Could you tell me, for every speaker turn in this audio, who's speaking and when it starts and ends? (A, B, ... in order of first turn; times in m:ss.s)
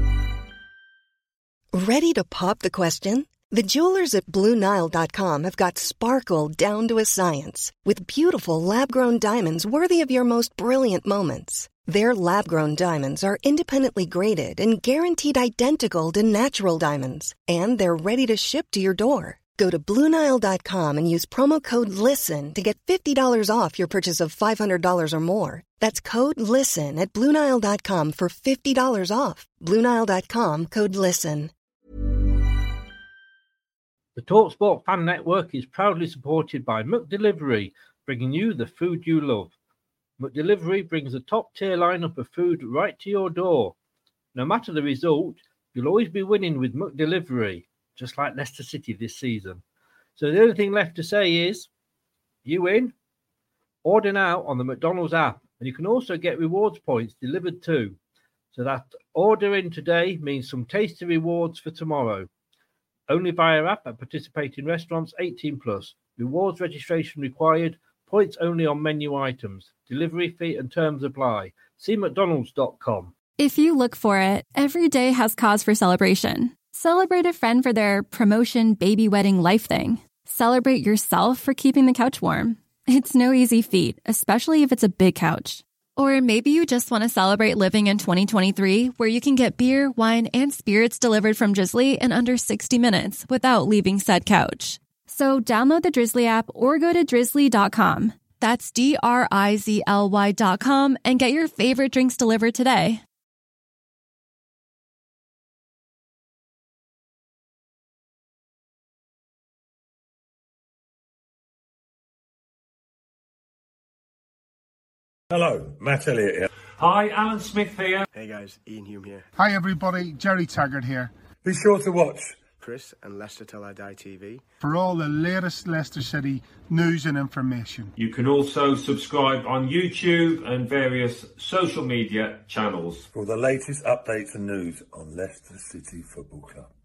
0:01.7-0:31.5 A
0:34.2-0:39.5 B
0:40.2-0:43.8 B
0:44.4-0:49.6 B
0:50.2-0:51.7 B
0:52.4-0:52.9 B
0:53.8-0:58.0 B
0:58.5-1:02.3 B
1:03.1-1:13.1 B
1:13.4-1:43.0 C
1:55.3-1:56.5 D
1:56.8-1:58.1 E
1:58.1-1:59.3 F
1:59.4-2:01.1 G
2:01.4-2:02.5 D
2:02.6-2:04.4 F
2:04.6-2:07.9 G
2:08.0-2:13.1 E
2:13.1-2:16.7 D